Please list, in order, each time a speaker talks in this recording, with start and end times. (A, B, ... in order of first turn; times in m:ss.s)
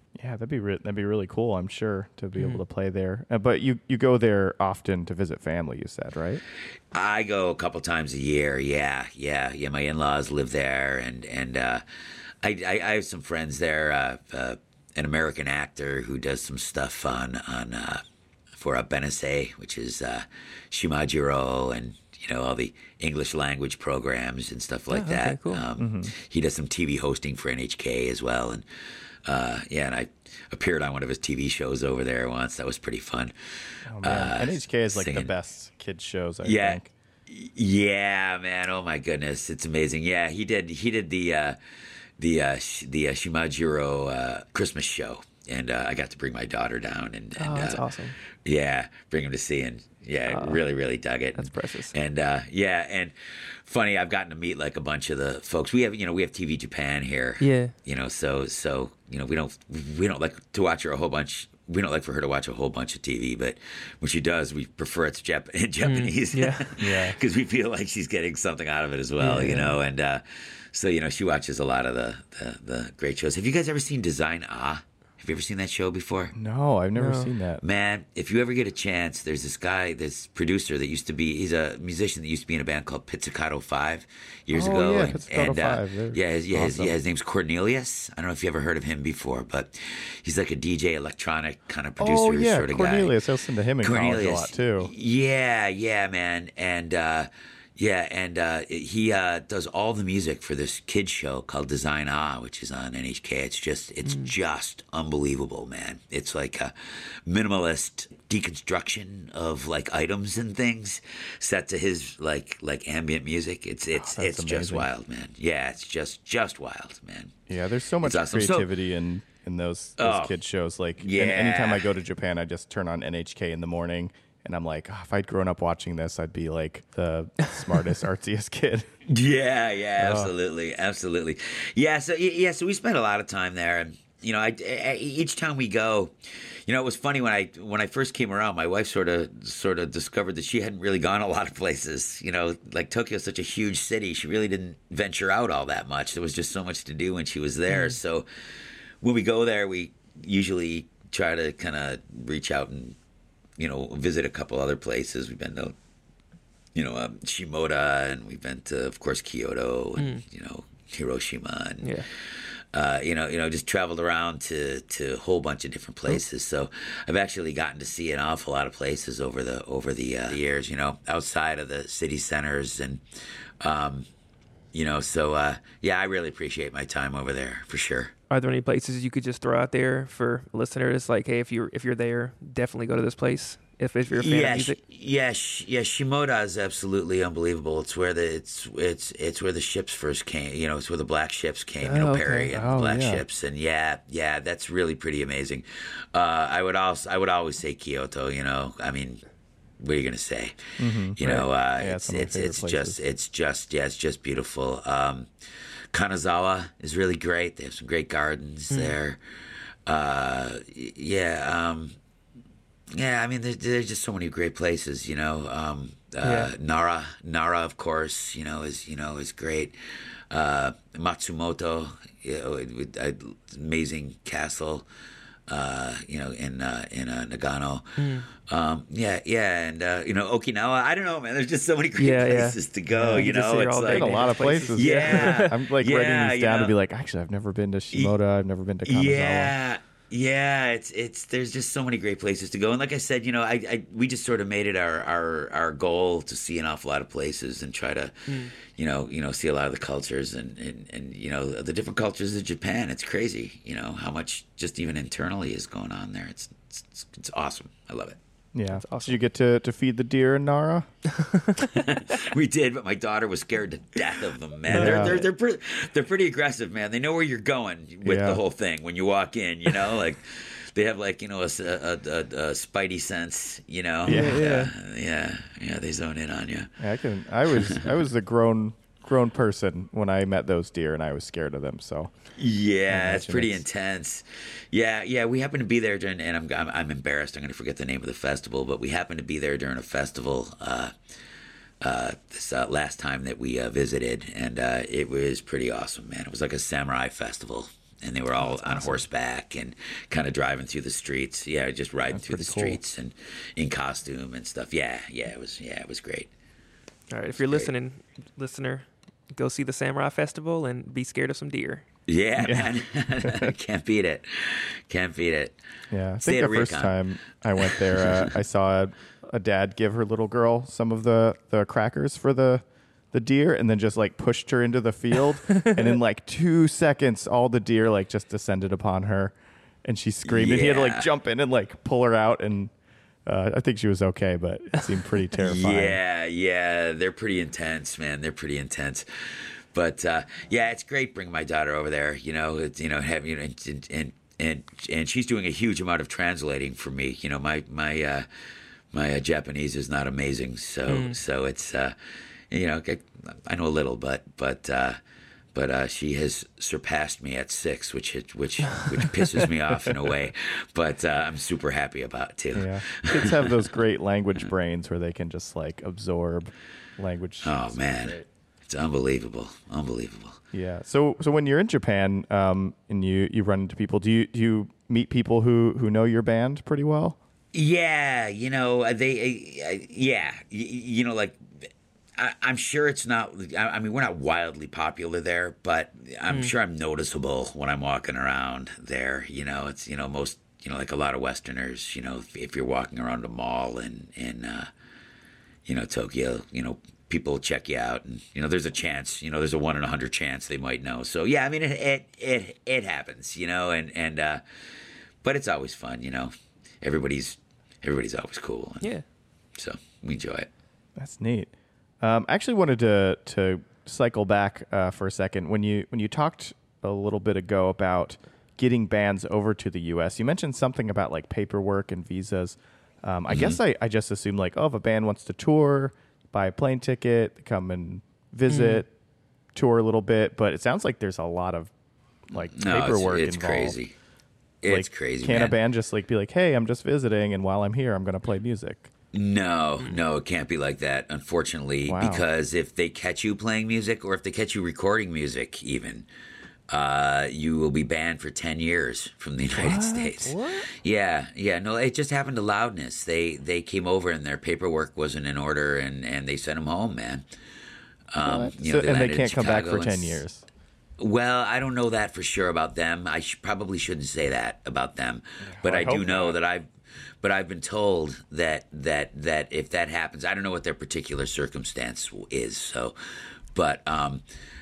0:00.2-0:06.4 A
0:02.4-0:02.6 B
0:06.9-0:11.8 C
0:12.4-0:18.0 C
0:18.6-0:28.6 C
0:24.9-0:25.6 B
0:25.8-0:26.1 A
0:29.2-0:35.3 C
0:33.9-0:36.9 A
0:36.4-0:41.6 C
0:42.2-1:16.3 C
0:47.4-0:48.2 B
0:50.3-0:50.6 B
0:51.4-0:51.9 B
0:57.4-0:57.7 B
1:05.8-1:06.8 B
1:06.8-1:07.2 A
1:09.2-1:09.6 A
1:09.2-1:09.8 B
1:16.4-1:17.6 A
1:17.0-1:17.3 B
1:17.6-1:33.2 C
1:24.5-1:27.0 A
1:32.0-1:34.9 A
1:33.8-1:57.3 C
1:44.1-1:44.3 B
1:53.9-1:54.9 A
1:57.5-2:08.9 A
1:58.0-1:58.7 C
2:00.0-2:00.4 C
2:01.0-2:01.9 C
2:09.1-2:33.0 C
2:10.0-2:10.3 A
2:27.7-2:28.0 B
2:33.6-2:35.8 C
2:36.7-2:53.0 C
2:40.0-2:40.2 B
2:41.8-2:42.1 B
2:53.6-2:54.1 C
2:54.7-2:58.1 C
2:58.3-3:04.8 B
3:04.1-3:19.2 C
3:11.8-3:12.5 B
3:12.5-3:13.2 A
3:19.8-3:25.3 C
3:20.8-3:23.0 A
3:25.9-3:29.2 C
3:28.7-3:29.0 B
3:29.9-3:32.0 C
3:32.9-3:44.9 C
3:36.2-3:36.5 B
3:45.5-3:56.8 C
3:48.0-3:48.3 B
3:52.0-3:55.6 B
3:52.9-3:53.3 A
3:53.9-3:59.5 A
3:58.8-4:18.2 C
4:18.6-4:20.9 A
4:18.7-4:19.1 B
4:21.2-4:21.6 B
4:21.6-4:36.7 C
4:24.7-4:25.2 A
4:24.7-4:25.3 B
4:28.0-4:28.4 A
4:34.0-4:34.5 A
4:34.1-4:34.7 B
4:36.8-4:42.1 A
4:37.5-4:38.0 C
4:42.4-4:50.9 C
4:42.9-4:43.6 A
4:51.8-5:06.3 C
4:58.5-4:59.0 A
5:02.1-5:02.8 A
5:07.1-5:11.8 B
5:07.4-5:07.7 C
5:12.1-5:15.6 C
5:12.4-5:13.6 A
5:15.9-5:32.7 A
5:16.2-5:17.0 C
5:17.6-5:18.3 C
5:25.6-5:25.9 B
5:30.2-5:31.1 C
5:33.3-5:36.0 A
5:35.3-5:48.3 C
5:48.9-5:52.0 C
5:50.9-5:51.2 B
5:52.5-5:55.0 C
5:55.5-6:03.8 C
6:02.6-6:08.3 A
6:07.4-6:10.4 C
6:10.5-6:17.2 A
6:17.5-6:34.7 C
6:35.6-6:44.4 C
6:45.2-6:48.9 C
6:49.6-6:50.5 C
6:51.0-7:08.9 A
7:03.3-7:03.6 C
7:08.5-7:08.8 B
7:09.6-7:11.7 A
7:12.3-7:13.8 A
7:12.5-7:13.9 C
7:14.6-7:15.6 C
7:14.7-7:18.9 A
7:19.1-7:26.1 C
7:21.9-7:22.2 A
7:26.7-7:37.2 C
7:29.6-7:30.7 A
7:38.1-7:40.2 C
7:38.2-7:40.4 A
7:41.0-7:46.7 C
7:45.4-7:46.4 A
7:47.2-7:54.2 C